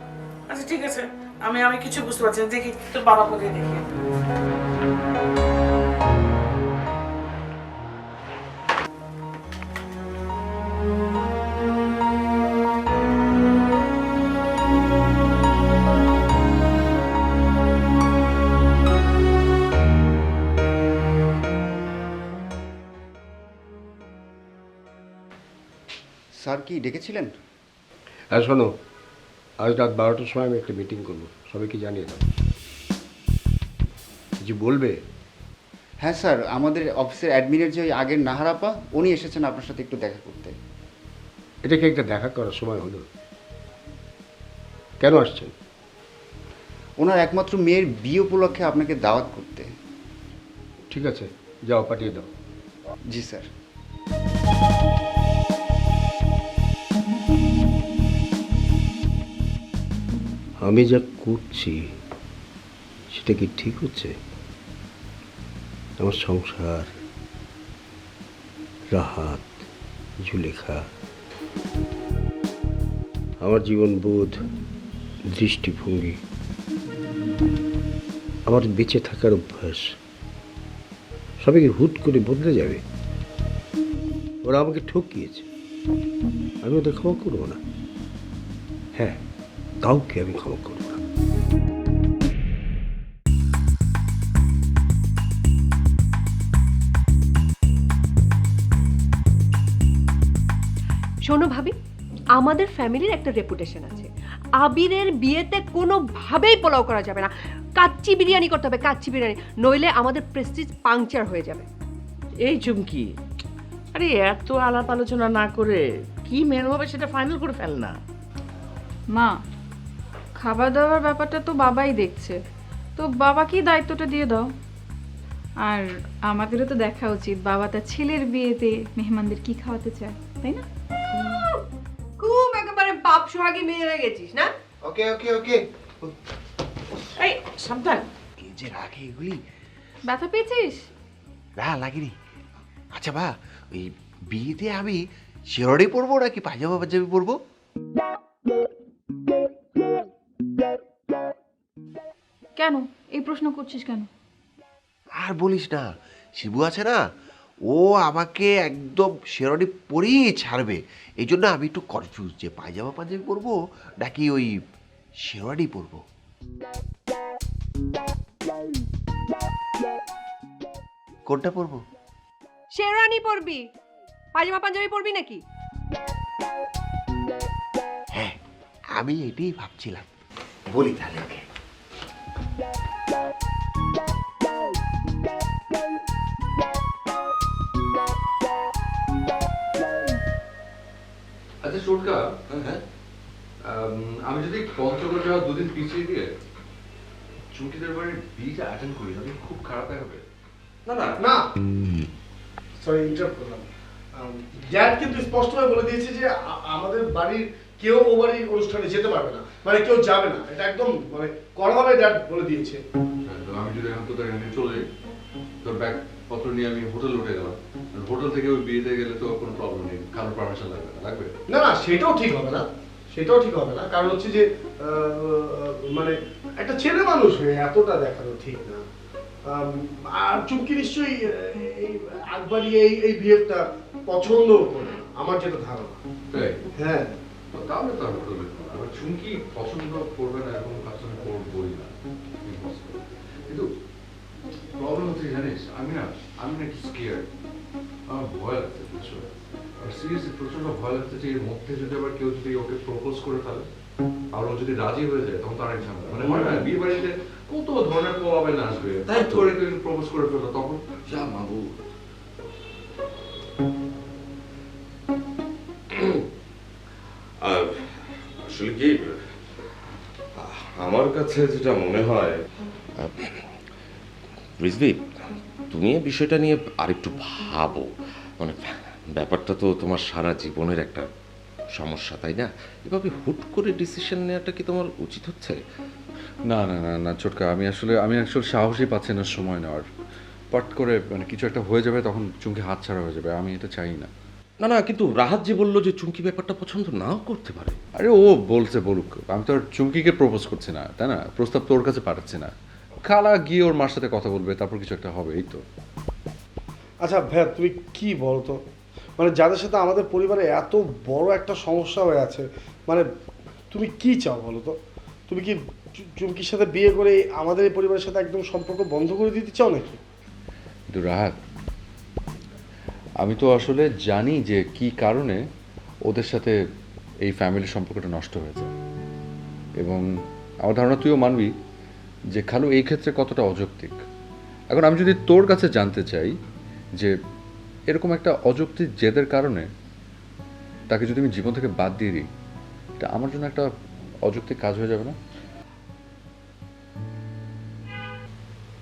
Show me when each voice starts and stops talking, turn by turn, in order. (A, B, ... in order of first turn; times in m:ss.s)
0:00.5-0:03.8 A
0:26.4-0:27.3 B
0:28.3-0:28.7 C
0:29.6-0:32.3 C
0:34.4-0:35.0 C
0:36.0-0:40.5 B
0:41.6-0:43.1 C
0:45.0-0:45.5 C
0:47.0-0:49.7 B
0:50.9-0:52.3 C
0:53.1-0:53.5 B
1:00.6-1:01.8 C
1:03.1-1:04.2 C
1:06.0-1:06.9 C
1:08.9-1:09.5 C
1:10.2-1:10.8 C
1:13.4-1:14.4 C
1:15.3-1:16.2 C
1:18.5-1:19.9 C
1:21.4-1:22.8 C
1:24.4-1:25.4 C
1:26.6-1:27.6 C
1:29.8-1:31.0 C
1:41.2-1:41.7 D
1:42.4-1:51.7 D
1:52.4-1:53.1 A
1:53.9-1:57.9 A
2:00.4-2:02.4 E
2:03.0-2:04.5 E
2:05.6-2:10.6 E
2:11.1-2:11.4 D
2:12.2-2:14.5 D
2:14.8-2:16.1 F
2:17.2-2:18.0 A
2:18.4-2:19.4 F
2:20.1-2:20.9 E
2:21.6-2:22.1 F
2:22.9-2:25.0 F
2:25.5-2:27.4 F
2:32.6-2:34.1 E
2:35.2-2:37.0 F
2:37.7-2:44.6 F
2:45.2-2:46.0 F
2:51.2-2:51.8 F
2:52.7-2:53.6 D
2:54.3-2:55.4 D
2:58.9-3:00.1 F
3:00.7-3:01.4 F
3:11.6-3:12.2 G
3:12.5-3:12.8 H
3:13.6-3:16.3 G
3:17.5-3:20.2 G
3:20.8-3:21.2 H
3:21.2-3:21.4 I
3:22.8-3:32.8 I
3:33.2-3:34.8 G
3:35.6-3:41.3 G
3:41.5-3:48.8 I
3:49.5-3:56.0 I
3:56.3-3:56.6 G
3:56.8-3:57.2 I
3:57.5-4:01.9 G
4:02.4-4:03.7 G
4:04.8-4:07.2 G
4:08.1-4:09.3 G
4:09.8-4:13.7 G
4:14.3-4:20.8 G
4:16.2-4:16.7 H
4:19.1-4:19.6 H
4:21.1-4:21.8 H
4:25.9-4:26.2 H
4:27.4-4:29.3 H
4:30.3-4:32.4 H
4:33.0-4:33.6 H
4:34.6-4:41.0 H
4:41.8-4:45.6 H
4:46.4-4:49.9 G
4:50.5-4:54.1 G
4:54.6-4:57.8 H
4:58.0-5:05.6 G
5:07.0-5:08.6 I
5:09.2-5:13.0 I
5:13.7-5:14.8 I
5:15.3-5:20.0 I
5:20.9-5:21.4 G
5:23.2-5:25.4 G
5:26.0-5:26.6 G
5:27.2-5:28.7 G
5:29.8-5:31.5 G
5:32.3-5:34.0 G
5:34.7-5:36.4 G
5:37.9-5:39.7 G
5:40.9-5:42.3 G
5:43.0-5:43.7 G
5:44.2-5:45.2 G